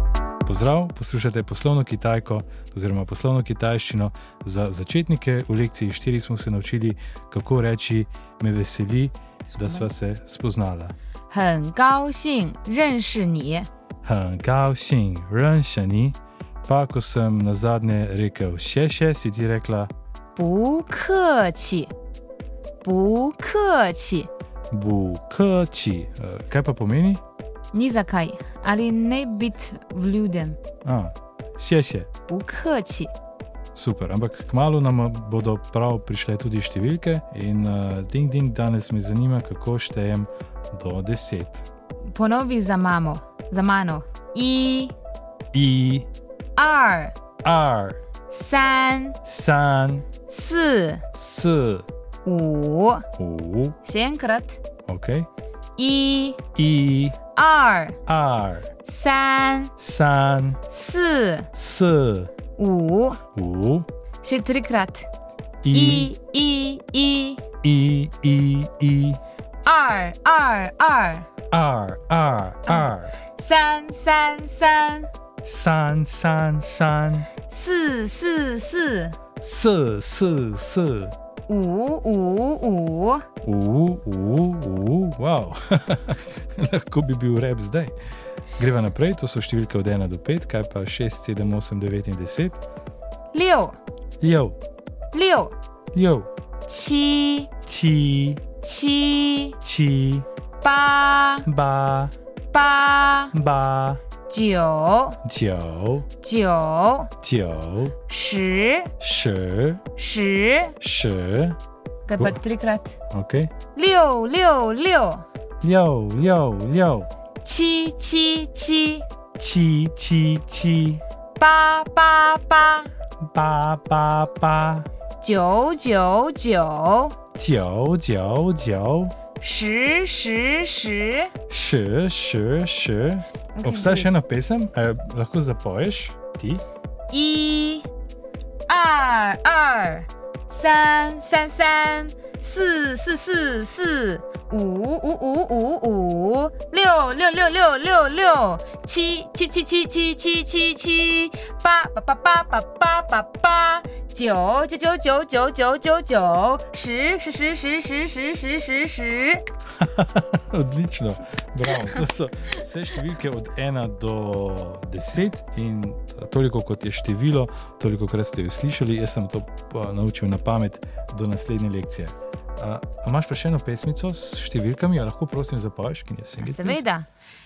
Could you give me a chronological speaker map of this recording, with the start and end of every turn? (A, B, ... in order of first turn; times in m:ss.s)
0:00.4-0:11.0 A
0:11.3-0:13.7 B
0:14.0-0:19.9 A
0:20.4-0:21.9 B
0:22.8-0:24.3 B
0:24.7-0:27.2 A
0:27.7-0:30.6 B
0:30.8-0:32.1 A
0:32.3-0:33.1 B
0:33.8-0:41.7 A
0:42.1-0:44.9 B
0:45.5-0:46.1 A
0:46.6-0:47.2 B
0:47.4-0:48.0 A
0:48.3-0:49.2 B
0:49.2-0:50.1 A
0:50.3-0:51.0 B
0:51.1-0:51.9 A
0:52.2-0:53.1 B
0:53.2-0:53.8 A
0:53.8-0:54.6 B
0:54.9-0:55.3 A
0:55.8-0:56.4 B
0:56.6-0:57.2 A
0:57.4-0:58.0 B
0:58.1-0:58.7 A
0:58.8-0:59.7 B
0:59.8-1:00.6 A
1:00.7-1:01.5 B
1:01.5-1:02.3 A
1:02.6-1:03.2 B
1:03.4-1:03.9 A
1:04.2-1:05.1 B
1:05.6-1:06.1 A
1:05.7-1:07.4 B
1:07.6-1:09.2 A
1:09.6-1:11.3 B
1:11.5-1:13.2 A
1:13.4-1:15.1 B
1:15.4-1:17.3 A
1:17.5-1:19.2 B
1:19.4-1:21.1 A
1:21.5-1:23.3 B
1:23.4-1:27.9 A
1:28.6-1:32.6 A
1:33.3-1:33.8 B
1:34.2-1:34.6 A
1:35.1-1:35.6 B
1:35.9-1:36.3 A
1:36.7-1:37.5 B
1:37.7-1:38.4 A
1:38.6-1:39.6 B
1:39.6-1:40.3 A
1:40.6-1:41.5 B
1:41.4-1:42.1 A
1:42.5-1:43.3 B
1:43.3-1:44.0 A
1:44.3-1:45.2 B
1:45.2-1:46.1 A
1:46.2-1:47.1 B
1:47.2-1:48.0 A
1:48.1-1:48.9 B
1:49.0-1:49.8 A
1:50.0-1:50.8 B
1:50.8-1:51.6 A
1:52.1-1:53.0 B
1:53.1-1:53.5 A
1:53.8-1:55.2 B
1:55.6-1:57.1 A
1:57.4-1:59.0 B
1:59.4-2:01.0 A
2:01.4-2:02.9 B
2:03.2-2:04.9 A
2:05.2-2:07.2 B
2:07.4-2:09.1 A
2:09.4-2:11.3 B
2:11.5-2:16.6 A
2:13.6-2:14.1 B
2:17.1-2:17.9 B
2:18.7-2:39.4 B
2:39.8-2:56.8 A
2:56.4-2:57.1 B